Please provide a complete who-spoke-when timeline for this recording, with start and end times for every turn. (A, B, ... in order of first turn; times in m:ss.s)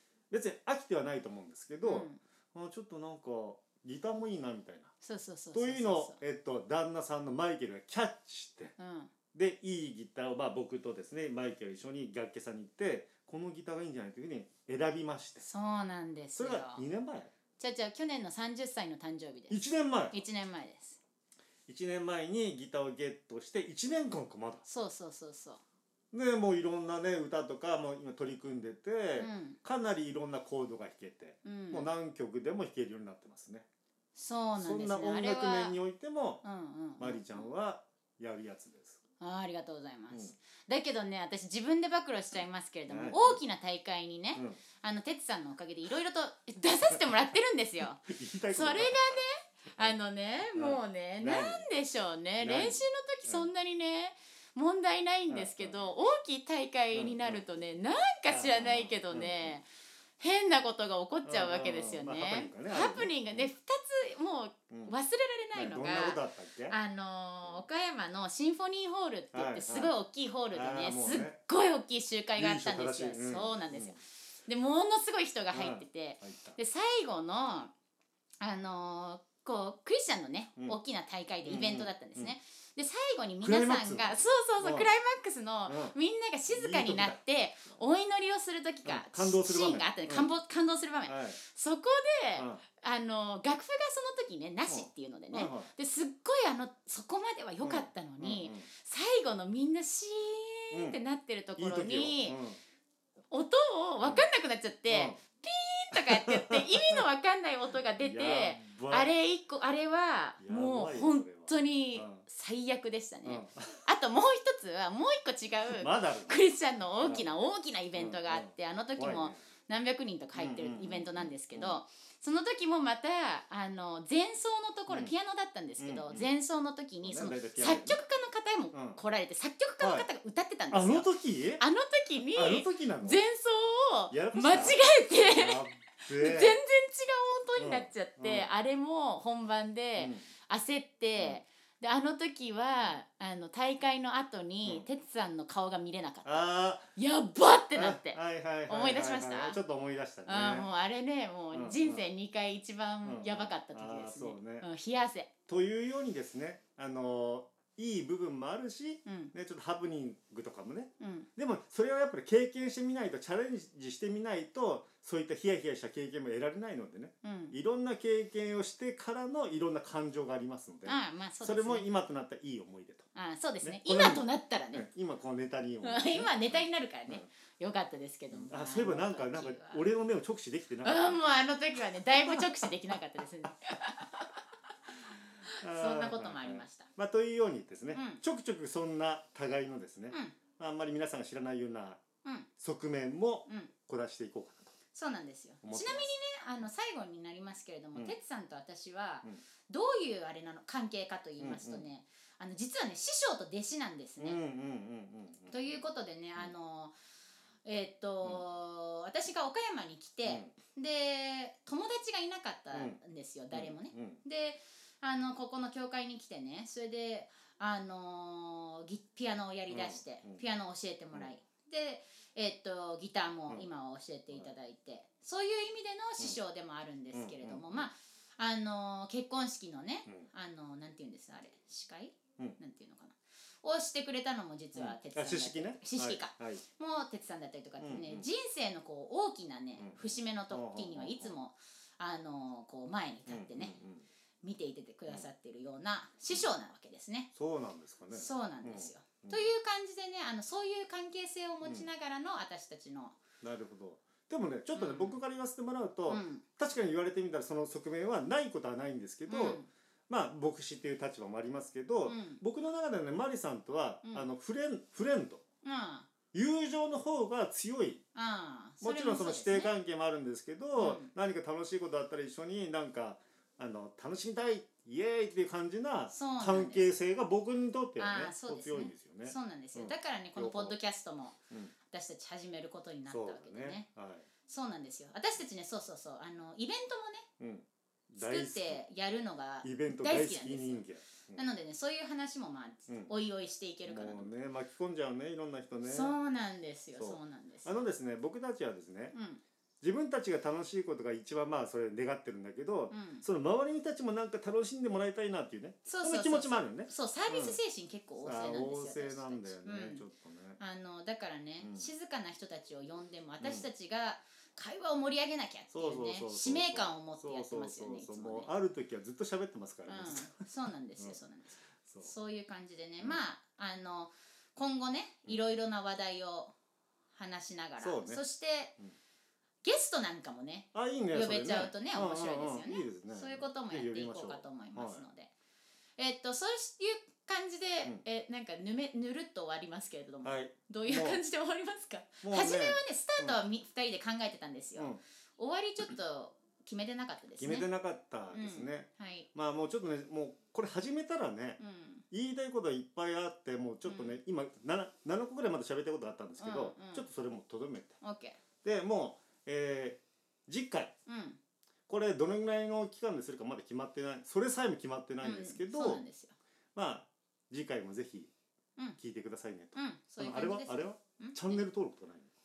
0:00.3-0:04.9 A
0:01.8-0:02.2 B
0:05.0-0:06.2 B
0:05.5-0:08.7 A
0:08.8-0:09.1 B
0:09.3-0:15.5 A
0:15.4-0:16.8 B
0:16.4-0:17.3 A
0:17.6-0:19.6 B
0:19.5-0:20.2 A
0:20.1-0:21.0 B
0:21.7-0:24.6 A
0:24.7-0:25.6 B
0:26.1-0:33.7 A
0:29.2-0:29.6 B
0:31.4-0:31.9 B
0:34.2-0:35.8 B
0:34.6-0:36.4 A
0:36.4-0:37.5 B
0:37.0-0:39.0 A
0:39.2-0:59.7 B
0:42.9-0:43.4 A
0:48.0-0:49.2 A
0:50.5-0:51.7 A
0:52.4-0:53.5 A
0:55.3-0:55.9 A
0:56.9-0:57.4 A
0:58.3-0:59.6 A
1:00.2-1:17.7 B
1:01.2-1:03.5 A
1:05.5-1:06.8 A
1:09.3-1:10.0 A
1:10.5-1:11.4 A
1:12.4-1:14.0 A
1:15.5-1:16.6 A
1:18.4-1:42.4 B
1:21.4-1:22.4 A
1:23.4-1:24.9 A
1:25.7-1:26.0 A
1:26.5-1:27.2 A
1:28.8-1:30.3 A
1:31.1-1:31.4 A
1:32.4-1:32.6 A
1:34.7-1:35.7 A
1:37.6-1:38.7 A
1:40.7-1:41.0 A
1:41.6-1:42.6 A
1:43.3-2:29.6 B
1:44.9-1:45.2 A
1:45.9-1:47.0 A
1:48.0-1:49.1 A
1:50.4-1:52.2 A
1:53.2-1:53.8 A
1:55.7-1:56.4 A
1:57.0-1:57.2 A
1:58.0-1:59.4 A
2:00.4-2:01.8 A
2:05.8-2:06.3 A
2:07.0-2:08.0 A
2:08.7-2:09.0 A
2:09.8-2:10.1 A
2:10.7-2:11.6 A
2:12.4-2:13.2 A
2:14.1-2:16.6 A
2:17.6-2:18.5 A
2:20.0-2:20.2 A
2:26.2-2:26.9 A
2:27.7-2:30.7 A
2:30.3-2:35.3 B
2:31.5-2:32.1 A
2:33.0-2:34.7 A
2:35.5-2:53.1 A
2:39.1-2:39.3 B
2:41.0-2:41.3 B
2:47.2-2:47.6 B
2:50.8-2:51.9 B
2:53.1-2:54.9 B
2:53.6-2:57.3 A
2:55.8-2:59.8 B
2:58.3-3:01.2 A
3:00.8-3:04.4 B
3:02.1-3:02.7 A
3:05.5-3:06.9 B
3:05.6-3:12.0 A
3:07.9-3:08.2 B
3:12.6-3:14.7 A
3:14.9-3:24.4 B
3:15.6-3:16.1 A
3:21.4-3:21.8 A
3:24.2-3:25.8 A
3:25.5-3:26.9 B
3:27.6-4:03.8 B
3:32.7-3:33.0 A
3:33.5-3:34.2 A
3:39.7-3:40.4 A
3:47.1-3:47.9 A
3:54.8-3:56.6 A
3:57.8-3:58.3 A
3:59.8-4:01.3 A
4:03.3-4:04.1 A
4:04.4-4:07.3 B
4:07.3-4:09.5 A
4:08.1-4:13.2 B
4:13.4-4:25.4 A
4:14.7-4:15.2 B
4:16.1-4:16.4 B
4:19.3-4:19.7 B
4:22.1-4:22.4 B
4:25.6-4:26.1 B
4:26.3-4:28.0 A
4:28.2-4:29.7 B
4:28.8-4:40.8 A
4:30.8-4:31.1 B
4:36.1-4:36.9 B
4:38.0-4:41.4 B
4:41.9-4:43.9 B
4:43.1-4:44.3 A
4:44.5-4:47.3 B
4:47.4-4:48.8 A
4:48.2-4:54.3 B
4:49.6-4:51.4 A
4:53.8-4:56.2 A
4:55.8-4:57.9 B
4:57.0-4:59.1 A
4:59.1-4:59.4 B
4:59.8-5:07.6 A
5:02.9-5:03.2 B
5:05.8-5:10.0 B
5:08.2-5:10.6 A
5:10.6-5:18.5 B
5:11.6-5:11.9 A
5:13.4-5:13.7 A
5:15.7-5:20.4 A
5:19.9-5:26.5 B
5:21.9-5:22.1 A
5:27.2-5:28.8 B
5:27.8-5:28.2 A
5:29.6-5:35.3 B
5:30.7-5:35.0 A
5:36.0-5:47.7 B
5:40.2-5:41.2 A
5:42.2-5:43.4 A
5:47.4-5:51.6 A
5:48.3-5:49.3 B
5:51.6-5:52.0 B
5:52.1-5:58.0 A
5:53.9-5:54.2 B
5:56.4-5:57.0 B
5:58.0-5:58.4 B
5:58.6-6:00.9 A
6:01.1-6:01.4 B
6:01.9-6:06.0 A
6:05.2-6:06.4 B
6:06.8-6:08.3 A
6:09.0-6:12.3 A
6:09.8-6:11.6 B